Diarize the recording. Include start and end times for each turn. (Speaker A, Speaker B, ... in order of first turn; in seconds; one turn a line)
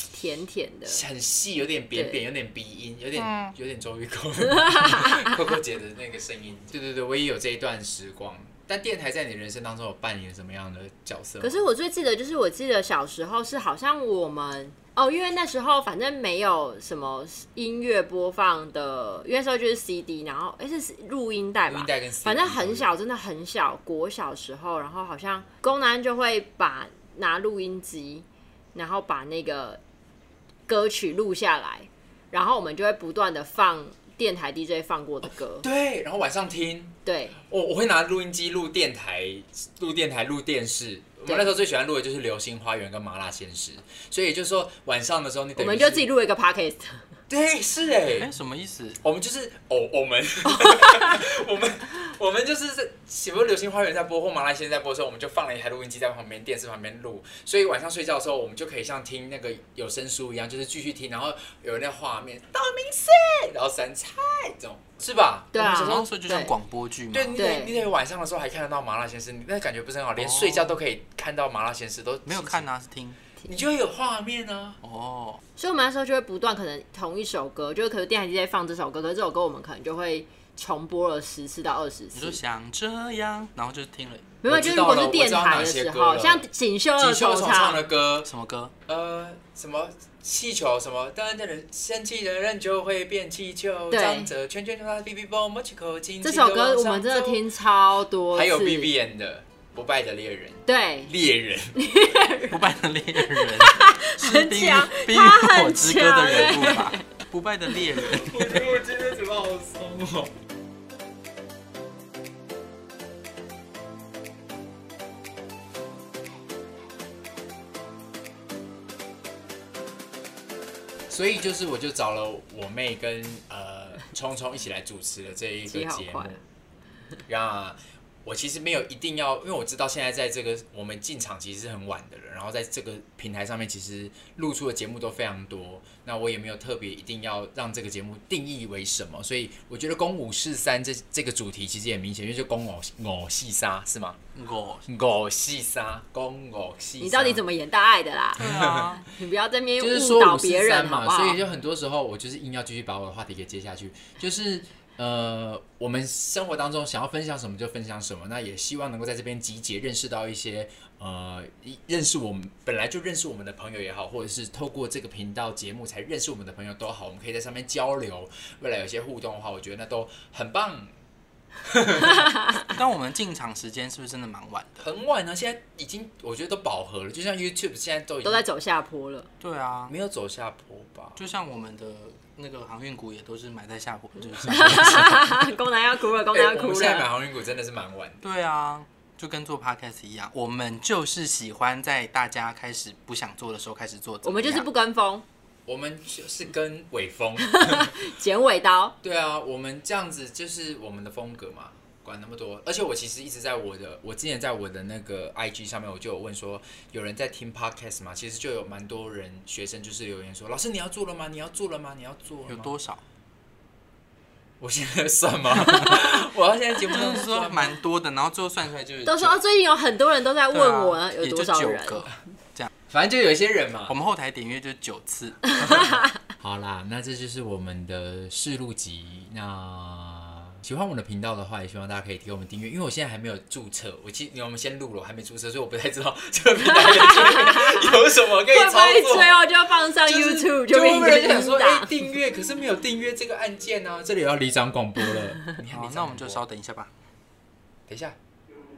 Speaker A: 0.1-1.0
Speaker B: 0.9-11.6
Speaker C: 3.2-3.5
Speaker A: 4.6-5.4
Speaker A: 11.4-29.8
Speaker B: 21.7-22.9
Speaker A: 30.7-35.6
Speaker B: 35.2-46.1
Speaker A: 37.1-37.4
Speaker A: 45.6-47.0
Speaker B: 47.3-48.3
Speaker C: 48.2-49.0
Speaker B: 49.0-66.1
Speaker A: 50.6-51.2
Speaker A: 65.5-66.5
Speaker C: 65.7-67.4
Speaker B: 67.1-72.7
Speaker A: 67.3-67.8
Speaker C: 70.2-70.8
Speaker C: 72.3-73.2
Speaker B: 73.5-74.8
Speaker C: 74.8-75.4
Speaker A: 75.6-82.4
Speaker C: 82.1-84.3
Speaker A: 84.4-87.9
Speaker B: 84.5-86.5
Speaker B: 87.0-88.3
Speaker C: 88.2-88.7
Speaker B: 88.9-97.4
Speaker A: 93.9-94.3
Speaker A: 96.2-98.9
Speaker B: 98.3-101.8
Speaker A: 100.7-101.1
Speaker A: 101.8-102.6
Speaker C: 102.5-108.7
Speaker A: 103.2-107.0
Speaker B: 108.0-110.3
Speaker B: 121.1-126.4
Speaker A: 125.7-126.3
Speaker B: 127.3-144.2
Speaker C: 144.3-144.9
Speaker B: 144.9-147.4
Speaker A: 147.0-148.6
Speaker C: 148.4-149.1
Speaker B: 148.4-148.9
Speaker A: 149.1-151.4
Speaker B: 149.8-170.9
Speaker B: 171.6-172.3
Speaker C: 172.7-174.8
Speaker B: 174.8-178.4
Speaker A: 178.2-179.3
Speaker C: 179.4-179.9
Speaker B: 179.9-181.2
Speaker C: 181.2-185.4
Speaker A: 184.5-187.1
Speaker B: 186.3-188.2
Speaker C: 188.2-194.7
Speaker A: 194.2-195.2
Speaker B: 195.7-198.0
Speaker A: 197.4-199.0
Speaker B: 199.0-212.7
Speaker C: 212.5-213.0
Speaker B: 214.6-217.8
Speaker C: 216.9-219.4
Speaker A: 219.1-222.0
Speaker C: 220.5-222.7
Speaker B: 222.9-223.9
Speaker C: 223.9-225.9
Speaker B: 226.4-239.4
Speaker A: 236.7-238.0
Speaker A: 238.5-242.1
Speaker B: 240.1-246.4
Speaker C: 245.7-246.9
Speaker B: 247.9-248.2